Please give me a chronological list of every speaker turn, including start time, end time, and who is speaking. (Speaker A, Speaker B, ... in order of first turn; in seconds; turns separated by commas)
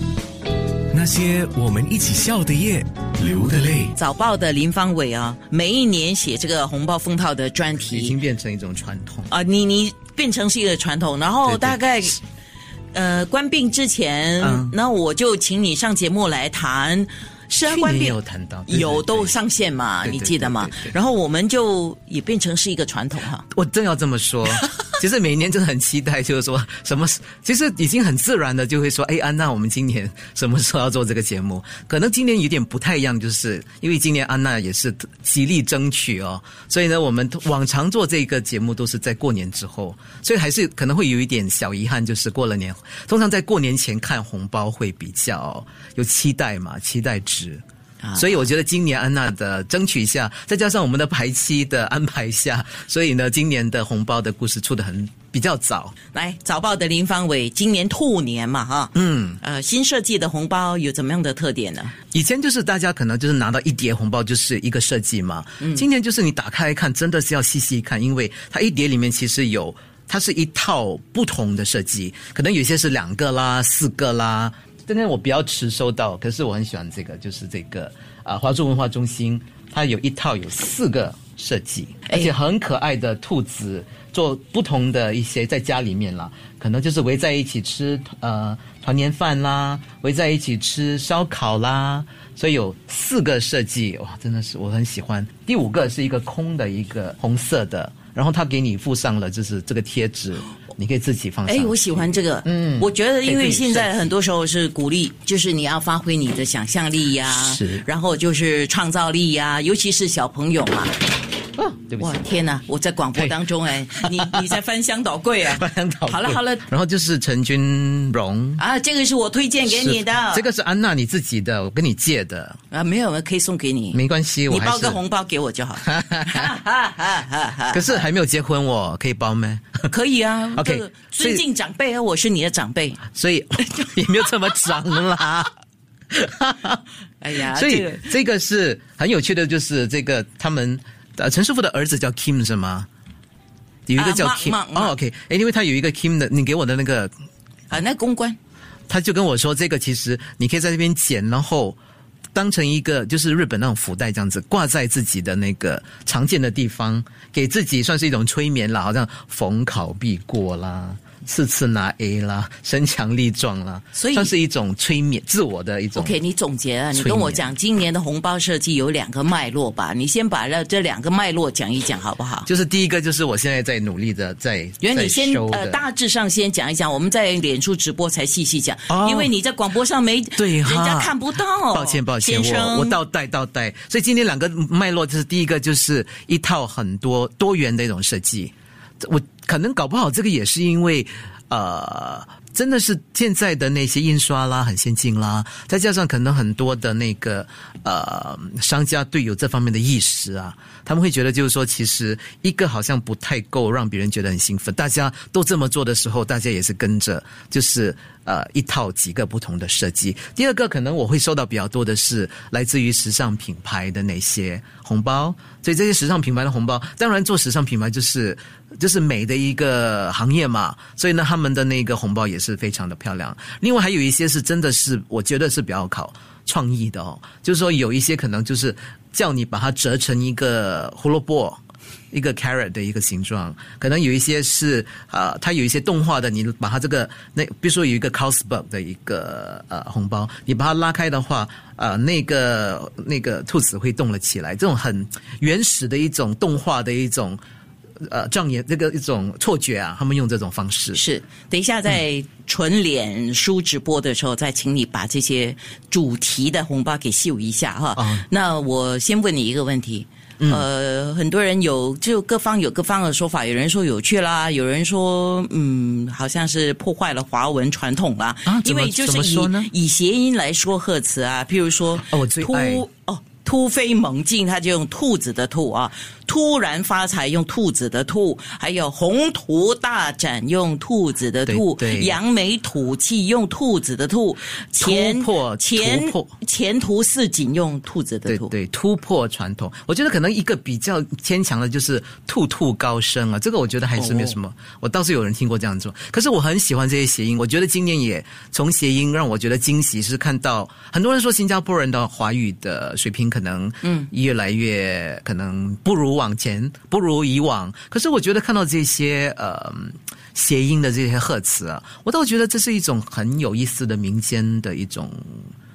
Speaker A: 0.9-3.9, Speaker B: 3.9-8.2, Speaker C: 7.8-9.3, Speaker B: 9.3-12.2, Speaker C: 11.4-11.8, Speaker B: 12.9-23.4, Speaker C: 14.4-14.8, Speaker C: 17.6-19.4, Speaker C: 20.0-20.9, Speaker C: 23.5-47.6, Speaker B: 48.0-48.5, Speaker C: 48.1-55.9, Speaker B: 56.1-62.0, Speaker C: 59.0-59.4, Speaker C: 62.1-104.0, Speaker B: 101.5-111.0, Speaker C: 107.3-107.8, Speaker C: 111.5-112.2, Speaker B: 112.0-116.7, Speaker C: 113.1-114.6, Speaker C: 115.5-118.6, Speaker B: 118.6-120.5, Speaker C: 119.7-122.6, Speaker B: 122.7-128.0, Speaker C: 123.9-125.0, Speaker C: 125.8-126.5, Speaker C: 127.7-129.9, Speaker B: 129.9-133.0, Speaker C: 130.6-131.4, Speaker C: 133.1-135.5, Speaker C: 136.1-136.8, Speaker B: 137.2-138.1, Speaker C: 137.4-142.9, Speaker C: 143.9-147.1, Speaker B: 144.0-144.9, Speaker B: 147.7-148.4, Speaker C: 148.9-151.8, Speaker C: 152.3-166.2, Speaker B: 163.9-164.3, Speaker B: 166.0-172.5, Speaker C: 166.9-167.5, Speaker C: 172.5-175.8, Speaker B: 174.8-183.0, Speaker C: 178.9-179.3, Speaker C: 180.4-181.2, Speaker C: 181.7-247.4, Speaker C: 248.0-251.0, Speaker B: 250.9-288.5, Speaker C: 258.0-258.3, Speaker C: 260.4-260.7, Speaker C: 268.5-269.7, Speaker C: 272.1-272.9, Speaker C: 281.5-282.2, Speaker C: 284.8-286.3, Speaker C: 288.3-315.5, Speaker B: 294.0-294.4, Speaker B: 303.8-304.1